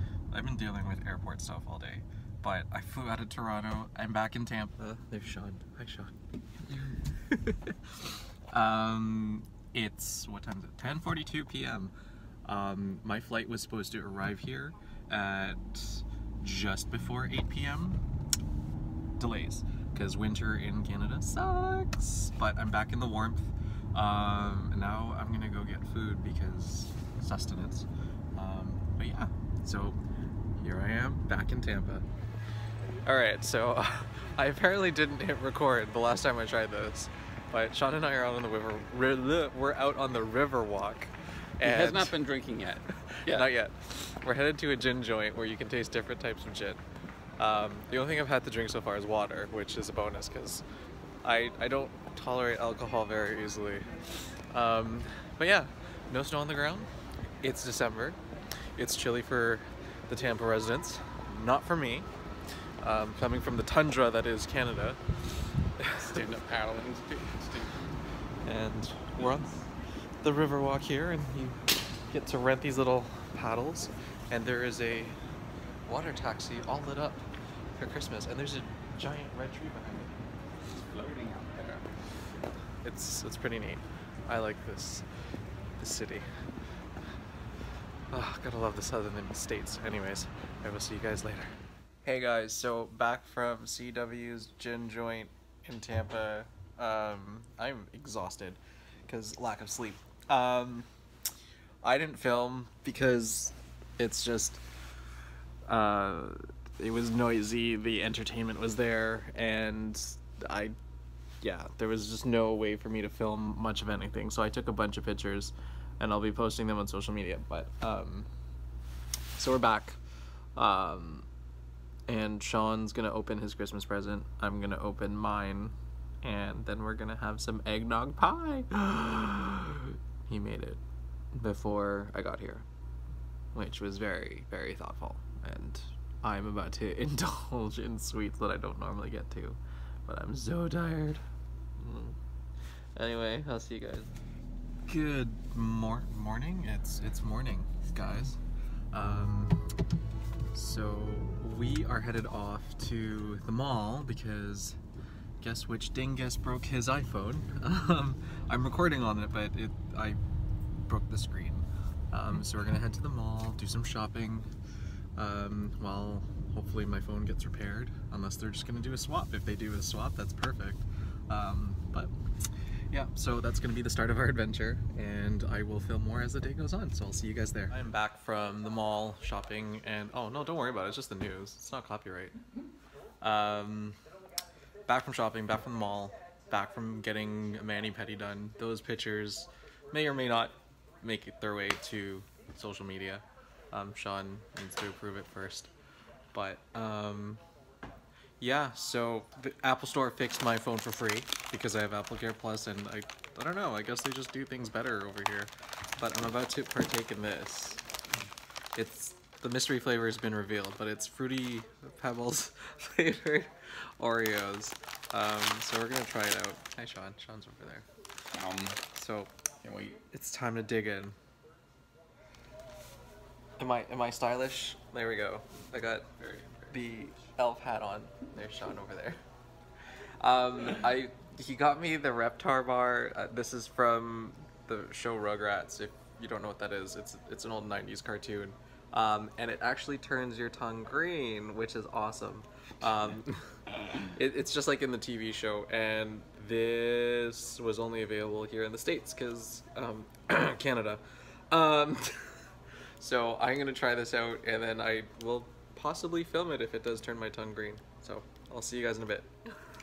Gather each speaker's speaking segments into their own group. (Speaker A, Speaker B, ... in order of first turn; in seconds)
Speaker A: 0.3-6.1, 6.7-11.9, 12.4-18.1, 19.2-30.0, 30.6-32.1, 33.0-42.2, 43.0-46.8, 47.4-50.6, 51.2-56.9, 57.4-58.2, 58.8-62.1, 62.8-65.0, 65.8-66.2, 68.4-69.7, 70.2-75.2, 75.9-80.3, 82.8-85.1, 85.8-86.3, 88.1-100.9, 101.8-104.6, 105.7-110.8, 111.4-118.3, 119.4-120.0, 120.6-121.3, 122.1-130.8, 131.3-132.7, 133.5-141.2, 141.8-142.2, 143.0-144.1, 144.9-148.4, 148.9-149.7, 150.5-154.8, 155.4-160.2, 160.9-164.5, 165.2-172.1, 172.9-182.4, 183.2-184.0, 184.9-195.7, 196.3-197.4, 198.4-207.8, 208.8-217.9, 218.9-219.3, 220.1-221.2, 223.6-229.2, 230.2-252.4, 253.0-259.3
Speaker B: 41.6-43.5, 66.0-67.8, 80.7-81.9, 218.3-218.8, 219.6-220.0